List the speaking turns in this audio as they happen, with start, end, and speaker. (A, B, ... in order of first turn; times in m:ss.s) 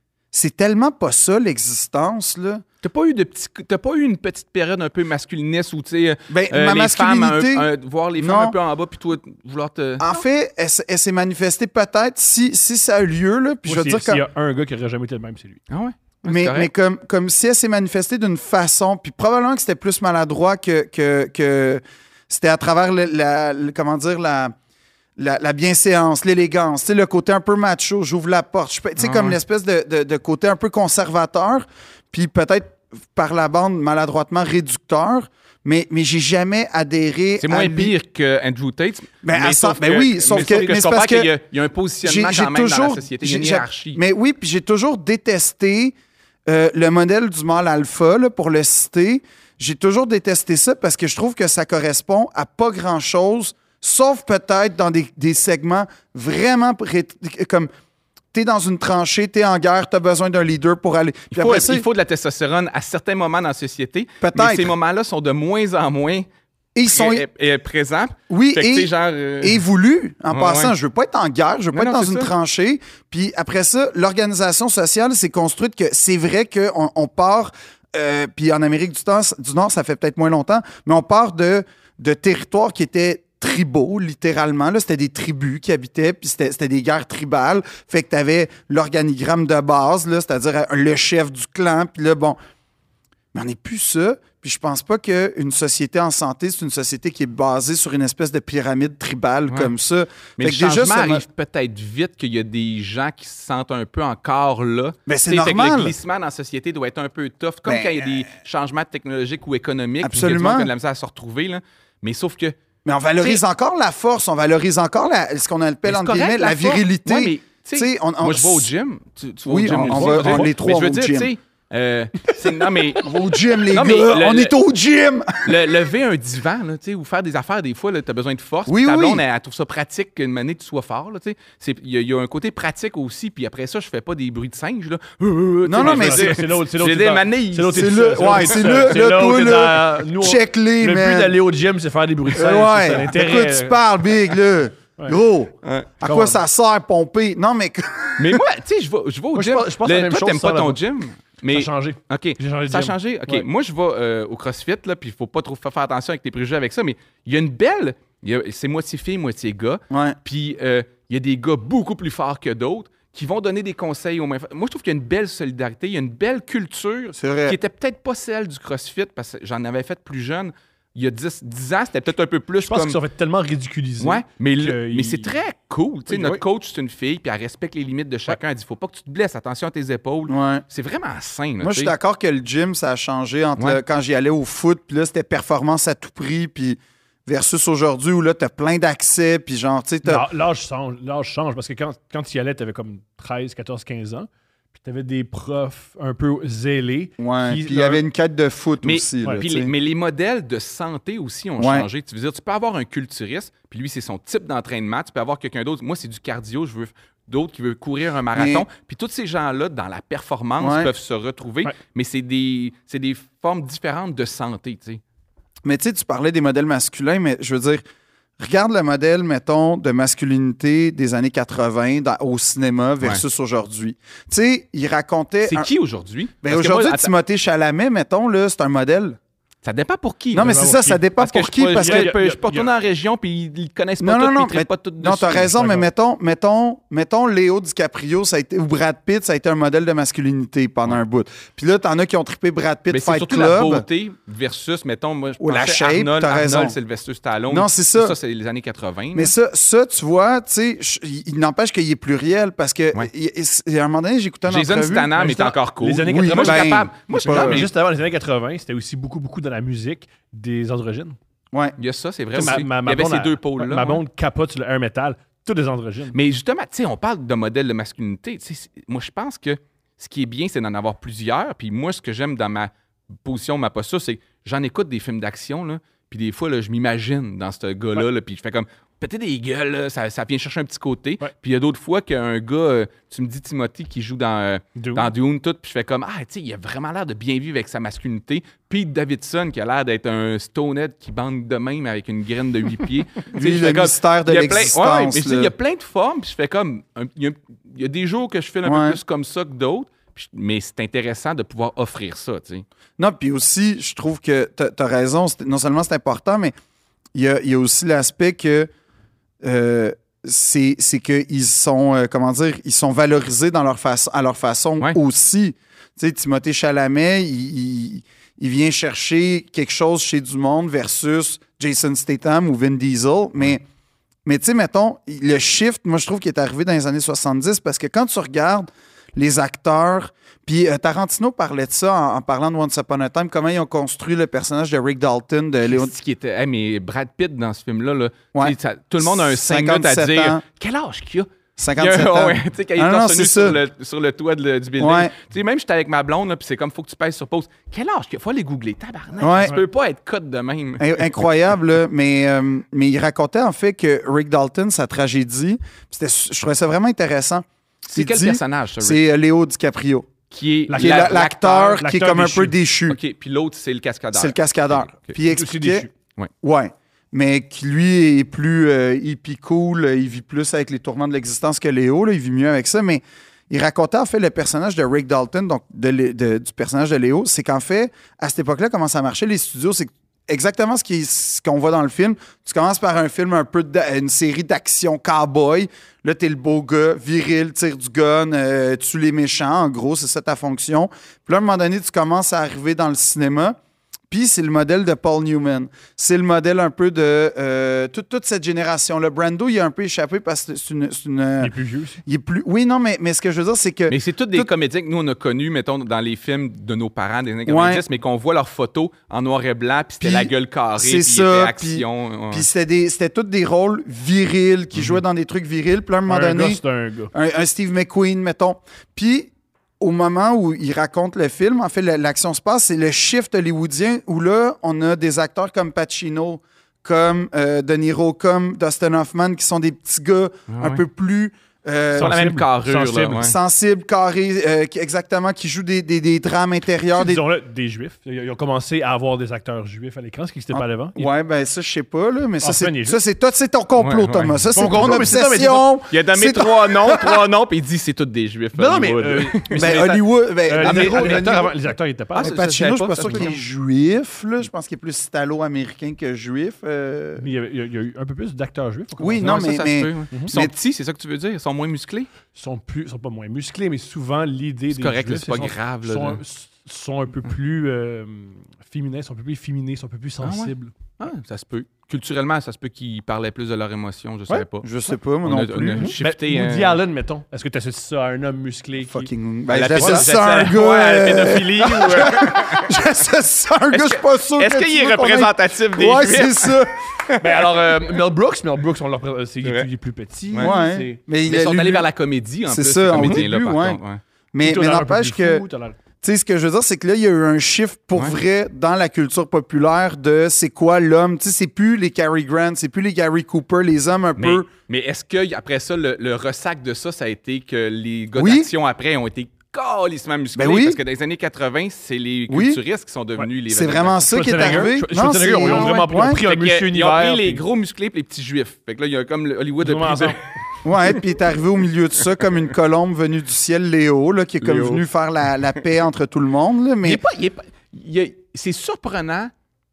0:00.3-0:02.6 A
0:02.8-0:10.2 B
0:06.3-0:07.7 A
0:08.2-0:08.6 A
0:10.0-0:14.2 A
0:13.6-0:15.6 C
0:15.7-0:16.7 B
0:16.3-0:24.6 A
0:25.2-0:37.9 A
0:29.0-0:29.4 B
0:37.4-0:44.0 B
0:39.2-0:41.3 A
0:42.0-0:45.9 A
0:46.5-0:57.7 A
0:58.3-1:01.8 A
1:01.3-1:06.3 B
1:04.2-1:04.7 A
1:06.8-1:07.2 A
1:06.9-1:09.6 B
1:08.3-1:32.4 A
1:10.3-1:10.7 B
1:11.7-1:12.3 B
1:33.3-1:41.2 A
1:40.4-1:52.6 B
1:45.1-1:46.0 A
1:47.7-1:48.2 A
1:50.0-1:50.7 A
1:52.8-1:58.7 A
1:55.9-2:03.1 B
1:59.4-2:01.3 A
1:59.7-2:00.5 C
2:03.0-2:05.7 A
2:03.7-2:04.5 B
2:05.4-2:19.0 B
2:08.7-2:09.2 A
2:15.6-2:16.4 A
2:15.8-2:23.8 C
2:17.7-2:21.4 A
2:22.3-2:28.4 A
2:25.6-2:25.9 B
2:26.0-2:26.4 C
2:28.2-2:53.0 B
2:29.3-2:30.8 C
2:31.5-2:33.5 C
2:39.9-2:40.2 A
2:47.2-2:47.6 A
2:52.6-2:55.3 C
2:54.0-3:01.9 B
3:00.3-3:00.6 A
3:01.6-3:10.2 A
3:10.0-3:18.0 C
3:17.2-3:19.7 A
3:18.8-3:35.0 B
3:21.6-3:21.9 A
3:28.3-3:28.7 A
3:30.6-3:30.9 A
3:35.6-3:37.8 A
3:38.4-3:45.7 A
3:45.5-3:47.1 B
3:46.4-3:49.2 A
3:49.6-3:55.8 B
3:50.3-3:52.1 A
3:50.4-3:51.0 C
3:51.8-3:52.7 C
3:54.0-4:03.8 A
4:02.9-4:09.3 B
4:05.4-4:06.8 A
4:07.5-4:08.2 A
4:09.1-4:15.2 A
4:14.5-4:17.7 B
4:15.2-4:21.2 C
4:16.0-4:17.7 A
4:21.8-4:24.0 B
4:22.4-4:26.2 C
4:26.1-4:32.7 B
4:33.2-5:02.7 B
4:44.8-4:45.1 C
4:53.3-4:55.5 A
4:58.6-4:59.0 A
5:03.0-5:06.5 A
5:07.2-5:08.7 A
5:09.4-5:23.6 A
5:24.2-5:35.9 A
5:35.6-5:51.1 B
5:38.4-5:40.4 A
5:41.6-5:43.6 A
5:44.8-5:45.1 A
5:49.2-5:49.6 A
5:50.8-6:00.1 A
5:57.9-5:59.0 B
6:00.3-6:01.8 B
6:00.7-6:02.6 C
6:00.8-6:03.0 A
6:02.9-6:04.4 B
6:04.1-6:05.9 A
6:05.2-6:05.9 C
6:06.4-6:33.6 A
6:34.1-6:41.5 A
6:41.4-6:42.0 C
6:42.0-6:44.5 A
6:43.9-6:52.5 B
6:47.5-6:47.8 A
6:50.0-6:56.6 A
6:56.1-6:57.1 C
6:57.1-7:12.2 A
7:10.5-7:10.8 B
7:11.9-7:13.3 C
7:12.0-7:13.4 B
7:13.2-7:17.2 A
7:16.9-7:21.1 C
7:20.5-7:27.2 A
7:22.4-7:23.0 C
7:23.8-7:25.0 B
7:24.6-7:25.7 C
7:25.9-7:31.4 B
7:28.5-7:29.8 C
7:29.5-7:31.5 A
7:30.5-7:32.4 C
7:32.1-7:33.4 B
7:32.2-7:37.2 A
7:33.0-7:33.3 C
7:37.2-7:39.5 C
7:39.0-7:40.5 A
7:39.2-7:42.1 B
7:42.3-7:50.7 C
7:44.7-7:46.2 B
7:50.2-7:54.7 B
7:54.6-7:55.9 A
7:55.2-7:56.8 B
7:55.8-7:59.1 C
7:58.9-8:06.8 A
7:59.5-8:02.8 B
7:59.8-8:00.4 C
8:03.7-8:07.7 B
8:07.2-8:11.0 C
8:10.4-8:11.9 A
8:11.3-8:14.0 B
8:12.5-8:13.8 A
8:14.3-8:15.4 A
8:14.4-8:15.8 C
8:16.0-8:24.5 A
8:24.2-8:34.7 B
8:28.2-8:28.5 A
8:30.4-8:30.8 A
8:32.3-8:32.6 A
8:33.5-8:36.2 A
8:34.1-8:37.4 C
8:35.5-8:40.2 B
8:39.6-8:40.3 C
8:40.6-8:47.0 A
8:40.8-8:41.1 B
8:44.4-8:44.8 B
8:46.8-8:49.3 B